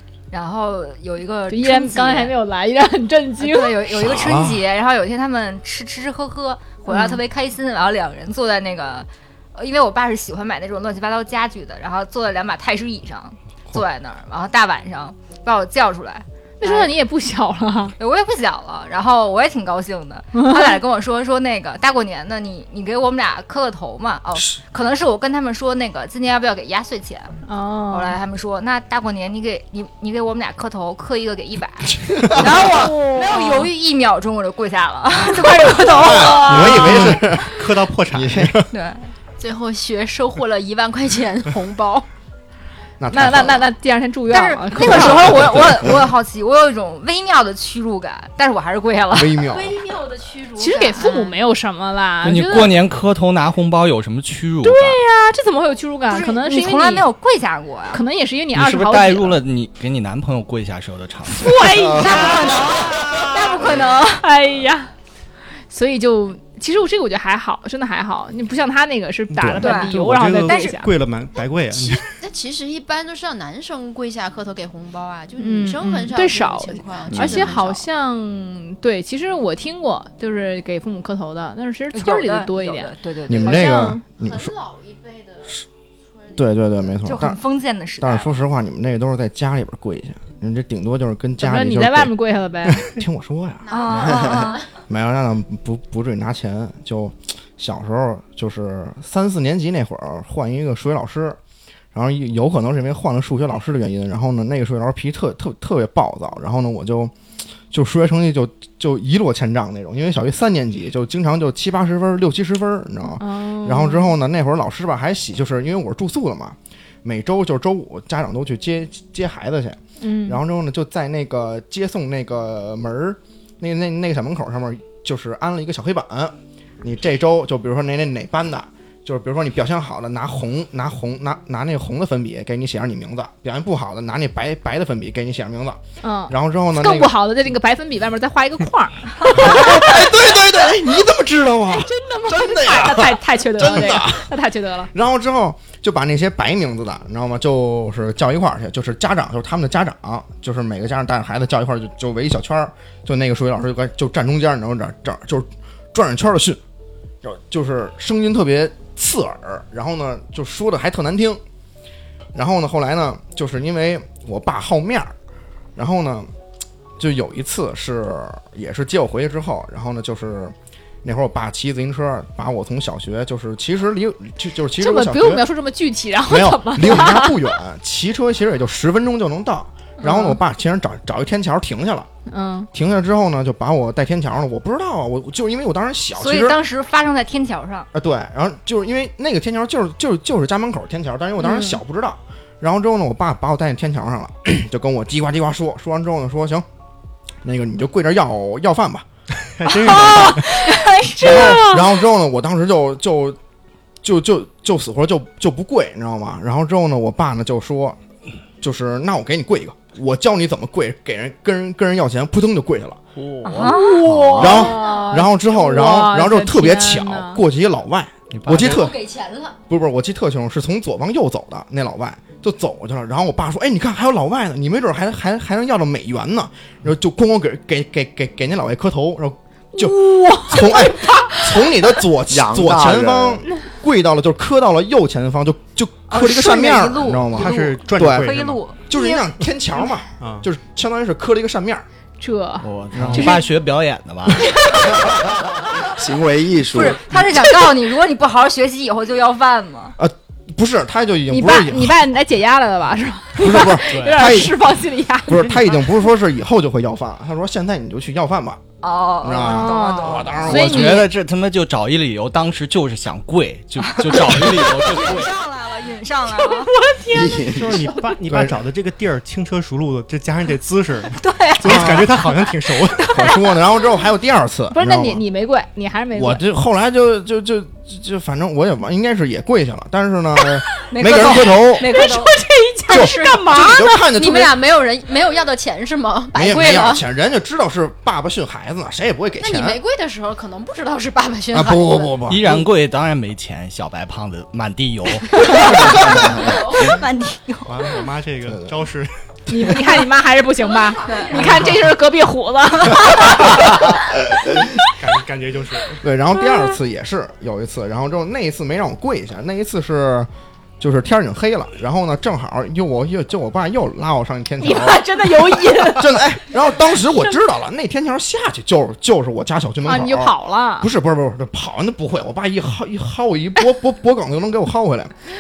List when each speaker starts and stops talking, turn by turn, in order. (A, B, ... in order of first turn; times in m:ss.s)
0:00.3-0:02.4 A
0:01.5-0:03.8 B
0:03.4-0:16.9 A
0:03.9-0:04.6 C
0:06.9-0:07.2 B
0:16.6-0:18.0 B
0:18.0-0:27.3 A
0:20.3-0:20.8 B
0:27.5-0:28.2 B
0:27.9-0:36.8 A
0:32.0-0:32.5 C
0:32.4-0:33.7 B
0:35.8-0:37.5 C
0:35.9-0:36.3 B
0:36.4-0:38.7 D
0:38.1-0:38.6 C
0:38.7-0:39.1 A
0:39.4-0:42.1 E
0:43.0-0:43.7 C
0:43.1-0:45.7 B
0:44.3-0:49.5 A
0:45.4-0:45.9 C
0:49.1-0:49.8 C
0:49.4-0:51.3 E
0:50.6-0:52.8 B
0:52.2-0:55.0 F
0:54.6-0:57.1 B
0:56.1-0:58.0 A
0:57.9-0:59.4 B
0:58.6-1:01.9 F
1:01.3-1:02.7 B
1:01.9-1:04.3 A
1:04.1-1:04.9 B
1:05.7-1:10.9 B
1:09.3-1:12.1 D
1:09.6-1:09.9 A
1:10.5-1:10.8 A
1:12.0-1:17.8 E
1:15.4-1:24.0 B
1:21.9-1:23.8 A
1:23.3-1:24.6 C
1:24.2-1:25.6 E
1:26.2-1:26.4 E
1:26.4-1:27.4 C
1:27.0-1:28.3 A
1:28.0-1:32.1 C
1:31.4-1:32.9 B
1:32.8-1:41.4 C
1:33.6-1:34.7 E
1:33.7-1:34.7 A
1:41.9-1:47.1 C
1:47.7-2:17.2 C
1:53.2-1:54.1 B
2:00.0-2:00.4 B
2:16.0-2:20.1 B
2:19.3-2:24.3 C
2:21.8-2:24.9 B
2:24.9-2:36.6 C
2:37.2-2:41.4 C
2:42.4-2:45.1 C
2:45.8-2:46.3 C
2:47.0-2:55.5 C
2:54.8-2:57.5 B
2:56.3-3:02.1 C
3:00.0-3:00.4 B
3:02.3-3:02.7 B
3:02.7-3:06.6 C
3:06.2-3:07.9 A
3:07.9-3:16.6 C
3:11.4-3:11.8 B
3:17.4-3:19.1 C
3:19.5-3:20.5 D
3:19.9-3:21.5 A
3:19.9-3:21.8 B
3:21.2-3:23.4 C
3:24.0-3:28.0 C
3:28.6-3:33.0 C
3:33.2-3:33.7 F
3:33.4-3:34.0 A
3:33.6-3:37.4 B
3:34.0-3:34.6 G
3:34.4-3:39.0 C
3:34.4-3:35.3 E
3:38.3-3:38.8 F
3:38.5-3:39.6 E
3:39.7-4:01.9 C
3:49.8-3:51.7 B
3:52.3-3:53.4 G
3:56.1-3:58.8 A
3:57.3-3:58.6 D
3:58.9-3:59.2 B
4:00.2-4:00.5 D
4:02.2-4:03.5 B
4:02.6-4:04.8 F
4:04.4-4:05.2 B
4:05.9-4:07.2 G
4:06.7-4:10.0 A
4:10.0-4:12.0 C
4:11.3-4:15.6 B
4:13.4-4:14.6 C
4:14.0-4:14.2 F
4:15.3-4:18.6 C
4:18.8-4:20.4 A
4:19.2-4:21.0 C
4:19.4-4:21.1 B
4:20.4-4:25.3 F
4:23.8-4:26.7 A
4:26.3-4:27.9 B
4:27.1-4:27.8 G
4:27.5-4:33.2 D
4:28.3-4:28.6 C
4:31.2-4:32.6 A
4:31.6-4:32.1 C
4:33.1-4:33.4 B
4:33.1-4:35.2 C
4:34.7-4:36.4 B
4:36.1-4:41.9 C
4:40.9-4:42.3 A
4:41.8-4:44.1 B
4:42.9-4:44.6 C
4:42.9-4:43.3 E
4:44.2-4:47.0 E
4:46.3-4:49.8 C
4:49.4-4:52.2 E
4:51.5-4:52.7 C
4:52.3-4:56.0 F
4:55.3-4:57.9 A
4:56.4-4:56.9 E
4:57.7-4:59.1 D
4:59.5-5:03.9 B
5:00.8-5:01.6 E
5:04.9-5:06.0 D
5:06.0-5:25.2 C
5:14.6-5:16.2 B
5:19.8-5:20.9 B